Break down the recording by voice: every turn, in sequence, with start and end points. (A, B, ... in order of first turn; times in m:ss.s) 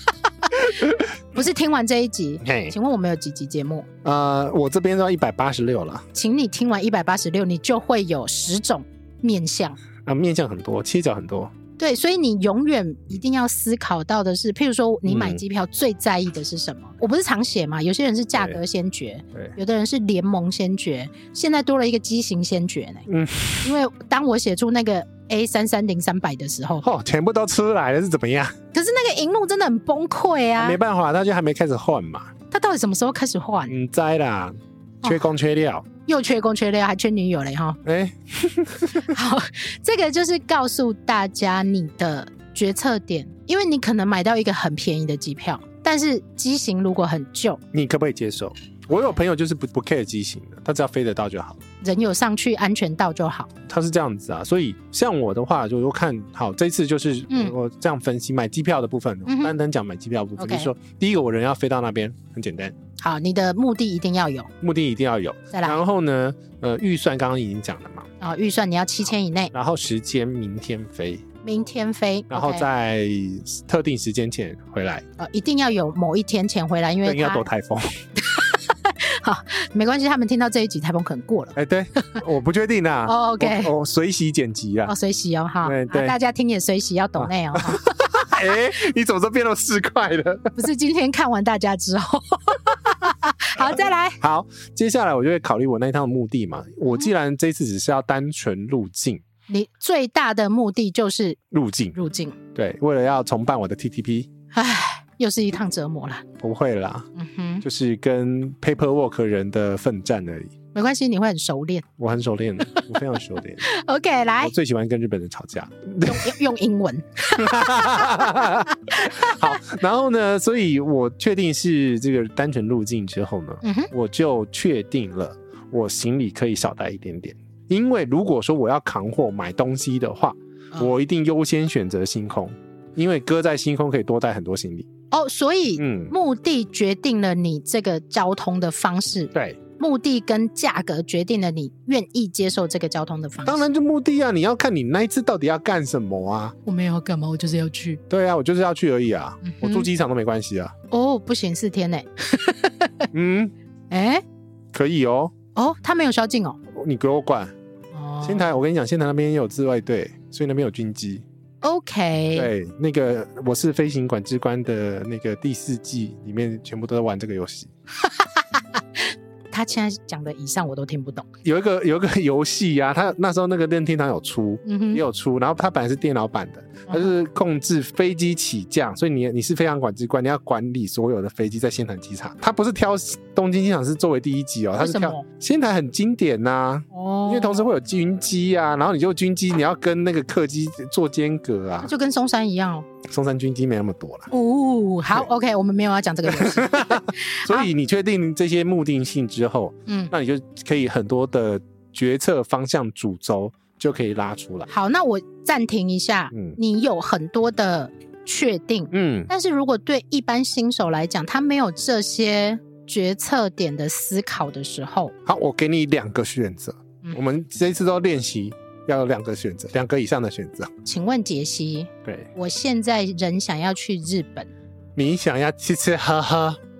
0:00.4-0:03.9 A
0:00.6-0:01.1 B
0:02.4-0:02.7 B
0:04.0-0:06.1 B
0:06.1-0:09.8 A
0:10.0-0:11.5 B
0:11.8-0:23.1 A
0:15.1-0:15.4 B
0:23.1-0:23.7 B
0:23.6-0:26.8 A
0:26.8-0:28.5 B
0:28.7-0:30.8 A
0:30.6-0:32.3 B
0:32.5-0:33.7 A
0:33.7-0:35.8 B
0:36.0-0:37.8 A
0:37.8-0:39.1 B
0:39.0-0:47.6 A
0:47.7-0:51.6 B
0:51.8-0:53.5 A
0:53.6-1:02.7 B
0:57.3-0:57.5 A
0:59.2-0:59.5 A
1:00.4-1:00.7 A
1:03.0-1:04.5 A
1:04.6-1:08.1 B
1:05.5-1:05.8 A
1:08.2-1:09.5 A
1:09.5-1:11.2 B
1:11.4-1:12.6 A
1:12.3-1:15.0 B
1:15.2-1:17.4 A
1:17.0-1:18.0 B
1:18.2-1:22.2 A
1:21.5-1:24.9 B
1:23.0-1:23.7 A
1:24.8-1:28.0 A
1:25.6-1:26.2 B
1:27.2-1:30.6 B
1:30.6-1:34.2 A
1:34.2-1:39.2 B
1:39.5-1:41.4 A
1:41.5-1:41.9 B
1:41.9-1:42.4 A
1:42.5-1:44.3 B
1:44.5-1:46.2 A
1:46.4-1:47.1 B
1:47.1-1:47.6 A
1:47.6-1:50.5 B
1:50.7-1:51.9 A
1:52.0-1:53.6 B
1:52.6-1:53.0 A
1:53.6-1:54.5 A
1:54.4-1:56.4 B
1:56.0-1:59.6 A
1:57.3-2:14.9 B
2:03.6-2:03.9 A
2:15.1-2:23.6 A
2:15.8-2:16.1 B
2:19.3-2:19.6 B
2:23.4-2:26.6 B
2:26.6-2:28.0 A
2:28.1-2:30.7 B
2:29.4-2:29.9 A
2:30.9-2:33.1 A
2:33.1-2:33.5 B
2:33.9-2:34.2 A
2:34.7-2:35.3 B
2:35.5-2:36.6 A
2:36.7-2:37.5 B
2:37.9-2:38.5 A
2:38.2-2:41.2 B
2:41.6-2:42.5 A
2:42.3-2:47.7 B
2:48.0-2:51.3 A
2:51.4-3:11.9 B
2:54.6-2:55.0 A
3:04.8-3:05.2 A
3:06.9-3:07.7 A
3:11.8-3:12.9 A
3:13.0-3:14.3 B
3:14.3-3:17.7 A
3:16.3-3:24.7 B
3:19.9-3:20.1 A
3:24.7-3:35.1 A
3:26.3-3:26.6 B
3:28.9-3:29.3 B
3:35.2-3:40.7 B
3:40.8-3:44.5 A
3:42.0-3:42.3 B
3:45.0-3:46.6 B